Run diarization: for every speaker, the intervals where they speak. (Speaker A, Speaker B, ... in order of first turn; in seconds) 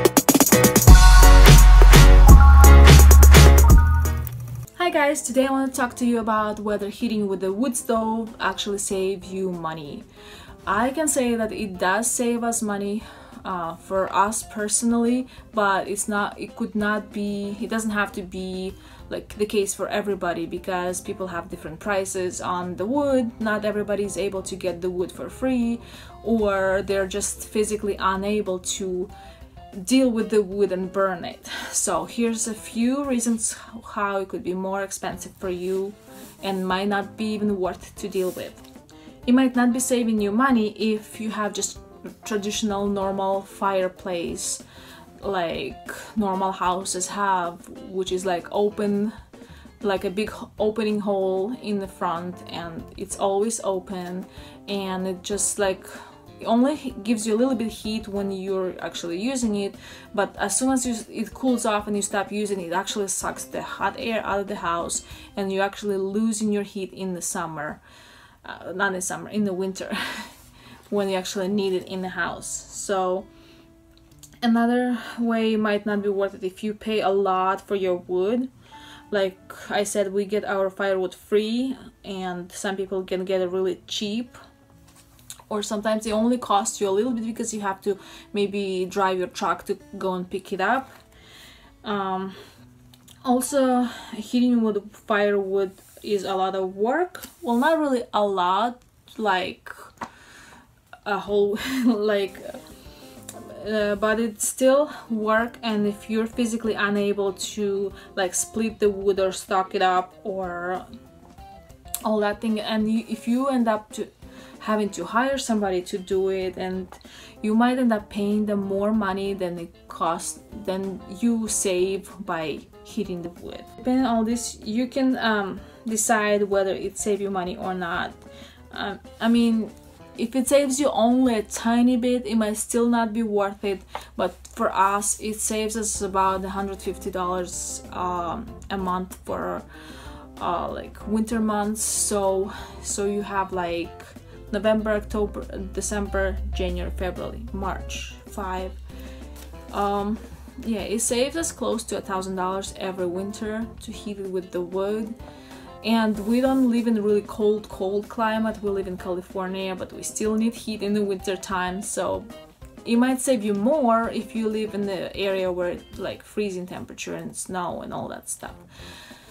Speaker A: 4.8-10.1, 10.6-29.1, 29.7-38.6, 39.2-44.6, 45.2-49.1, 49.8-67.8, 68.4-70.3, 70.9-73.3, 74.4-78.5, 79.1-84.4, 85.5-90.9, 91.8-92.4, 93.2-99.9, 101.0-102.6, 103.3-110.8, 112.0-128.2, 128.7-139.7, 140.3-148.8, 149.7-155.2, 155.8-162.3, 162.8-168.6